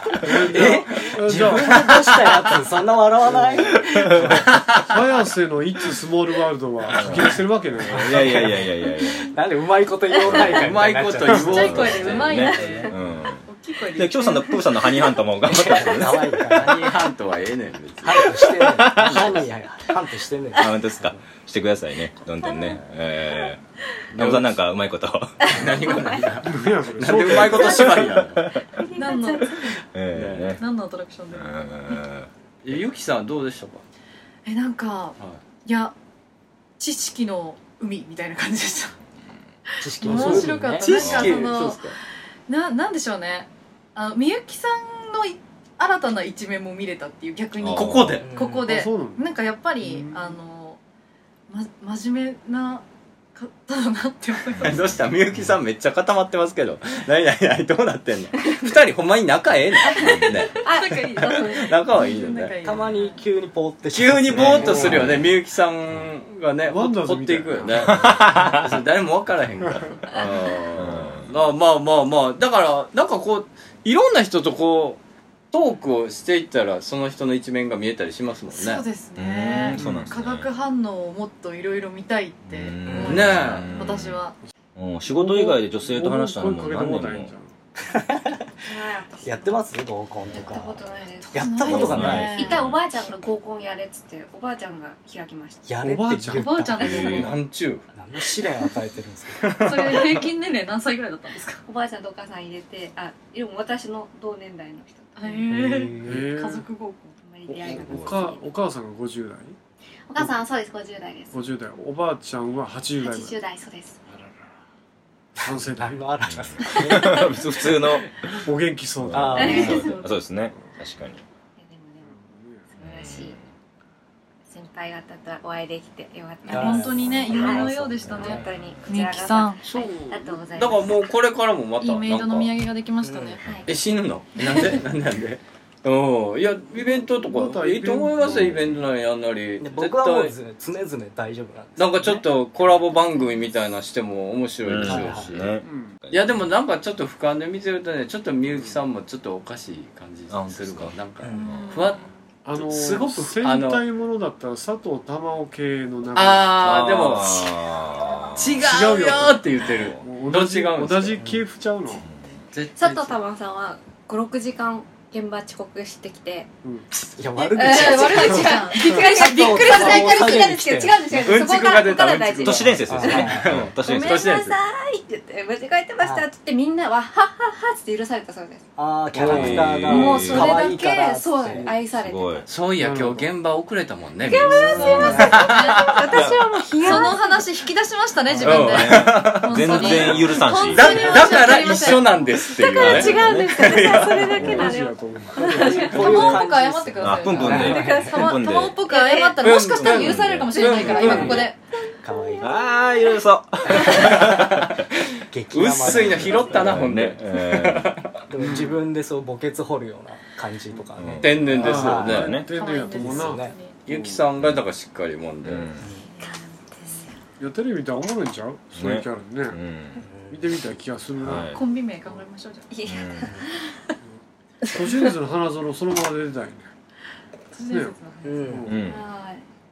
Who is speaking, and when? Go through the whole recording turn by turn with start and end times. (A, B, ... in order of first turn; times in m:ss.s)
0:00.2-0:01.8 A
0:00.4-0:02.5 B
0:00.5-0:04.5 C
0:04.4-0:04.9 B
0:04.9-0:08.4 A
0:06.9-0:09.3 D
0:07.9-0:08.7 C
0:09.3-0:12.0 C
0:10.3-0:10.7 D
0:10.4-0:12.6 B
0:11.3-0:14.6 E
0:11.5-0:13.4 D
0:12.2-0:12.9 F
0:13.9-0:16.5 D
0:15.4-0:17.0 C
0:16.5-0:19.4 B
0:18.0-0:21.1 C
0:18.7-0:19.4 D
0:20.5-0:23.6 D
0:24.1-0:25.6 D
0:24.2-0:24.5 B
0:25.4-0:28.5 B
0:25.4-0:26.2 F
0:26.4-0:28.1 A
0:28.8-0:29.7 F
0:28.9-0:29.8 E
0:29.9-0:30.6 D
0:30.1-0:30.6 B
0:30.6-0:32.0 E
0:31.3-0:32.3 D
0:32.6-0:33.8 B
0:34.4-0:35.9 E
0:35.2-0:35.4 B
0:36.8-0:38.9 E
0:39.8-0:41.0 C
0:40.0-0:41.8 E
0:40.0-0:42.0 B
0:40.9-0:41.4 D
0:42.5-0:50.8 E
0:47.6-0:48.2 D
0:47.7-0:48.3 B
0:48.2-0:48.7 C
0:48.7-0:50.4 A
0:51.5-0:54.8 E
0:54.6-0:55.0 D
0:54.6-1:00.6 B
0:59.8-1:02.1 F
1:00.0-1:00.4 D
1:00.5-1:03.2 E
1:01.3-1:02.6 B
1:02.6-1:05.0 C
1:03.9-1:15.0 B
1:04.4-1:05.3 D
1:04.6-1:05.0 A
1:06.6-1:08.0 A
1:08.0-1:08.6 D
1:10.8-1:11.4 D
1:15.5-1:18.8 B
1:18.5-1:24.3 E
1:19.2-1:20.5 D
1:19.8-1:20.1 A
1:22.5-1:24.2 D
1:22.8-1:23.3 C
1:23.1-1:23.7 B
1:24.8-1:27.3 D
1:25.1-1:27.5 A
1:27.8-1:28.5 C
1:28.6-1:29.6 F
1:29.2-1:32.3 C
1:30.3-1:35.6 F
1:31.4-1:32.7 E
1:31.6-1:32.8 D
1:35.6-1:37.2 C
1:35.8-1:36.7 A
1:36.3-1:37.3 E
1:36.8-1:37.3 D
1:37.1-1:37.8 B
1:37.9-1:40.0 C
1:39.4-1:40.1 B
1:39.6-1:41.6 E
1:41.6-1:45.5 F
1:45.2-1:47.2 E
1:45.5-1:46.3 C
1:46.0-1:46.7 A
1:47.2-1:48.4 F
1:47.5-1:49.6 A
1:47.6-1:48.2 D
1:50.1-1:51.4 F
1:51.3-1:53.4 A
1:53.0-1:54.0 F
1:55.4-1:56.1 A
1:55.4-1:57.3 C
1:56.3-1:58.1 D
1:58.4-1:59.8 A
1:59.0-2:01.2 D
1:59.1-1:59.9 C
1:59.4-2:00.1 F
2:01.6-2:02.2 F
2:02.0-2:02.6 A
2:02.7-2:03.4 F
2:02.8-2:03.5 D
2:04.5-2:11.0 F
2:06.5-2:09.6 E
2:06.5-2:08.5 C
2:08.6-2:08.9 D
2:09.6-2:12.5 B
2:11.8-2:13.5 E
2:13.0-2:13.6 C
2:13.4-2:13.7 F
2:13.6-2:20.3 B
2:14.4-2:14.7 E
2:17.3-2:18.2 A
2:18.2-2:18.8 D
2:19.6-2:22.2 C
2:21.8-2:25.6 B
2:24.6-2:26.5 D
2:24.8-2:25.3 C
2:25.6-2:26.0 A
2:26.1-2:32.0 B
2:28.5-2:28.8 A
2:30.3-2:30.9 D
2:31.3-2:32.0 E
2:31.4-2:32.0 D
2:32.4-2:37.0 A
2:32.6-2:33.8 B
2:36.1-2:37.5 B
2:36.6-2:38.9 D
2:38.4-2:41.2 B
2:38.6-2:42.0 A
2:39.5-2:40.0 D
2:41.2-2:41.4 C
2:42.0-2:42.4 D
2:42.5-2:43.2 B
2:42.8-2:46.5 F
2:47.0-2:51.1 C
2:47.5-2:53.3 F
2:47.6-2:50.7 E
2:51.2-2:54.6 B
2:52.4-2:54.3 D
2:52.9-2:53.4 C
2:53.8-2:58.7 F
2:56.0-2:56.2 C
2:58.8-3:01.7 C
2:59.1-3:00.8 D
2:59.3-2:59.7 A
2:59.5-3:02.5 F
3:01.9-3:02.4 D
3:02.4-3:05.9 B
3:02.8-3:03.3 A
3:04.2-3:07.6 F
3:04.4-3:12.4 E
3:04.8-3:05.1 A
3:06.1-3:06.4 D
3:08.3-3:08.6 C
3:08.4-3:11.3 D
3:08.4-3:09.9 B
3:10.7-3:14.3 B
3:11.2-3:16.1 F
3:12.8-3:14.7 D
3:14.0-3:16.3 A
3:15.5-3:18.1 C
3:15.6-3:21.6 E
3:16.0-3:16.3 D
3:17.0-3:18.8 D
3:17.5-3:21.5 F
3:19.4-3:21.4 B
3:19.6-3:20.5 D
3:21.0-3:21.4 C
3:22.0-3:22.5 C
3:22.2-3:23.2 F
3:22.4-3:24.8 D
3:23.7-3:24.1 C
3:24.1-3:24.8 B
3:25.3-3:26.6 C
3:25.5-3:28.2 B
3:25.9-3:27.9 D
3:28.3-3:32.3 C
3:28.4-3:28.8 A
3:31.0-3:32.5 D
3:31.2-3:32.3 B
3:31.5-3:34.2 A
3:32.4-3:33.8 E
3:33.0-3:33.5 C
3:33.9-3:35.7 B
3:35.4-3:35.8 D
3:35.8-3:36.0 C
3:36.2-3:37.1 F
3:37.4-3:39.6 A
3:38.7-3:40.0 D
3:40.0-3:40.5 C
3:40.3-3:41.5 A
3:41.2-3:41.6 D
3:41.4-3:42.8 E
3:42.7-3:43.7 F
3:42.8-3:43.3 D
3:44.7-3:46.7 A
3:44.8-3:45.1 F
3:47.5-3:48.6 E
3:47.7-3:47.9 A
3:48.2-3:48.7 C
3:48.5-3:48.8 A
3:48.6-3:49.0 D
3:48.8-3:49.4 F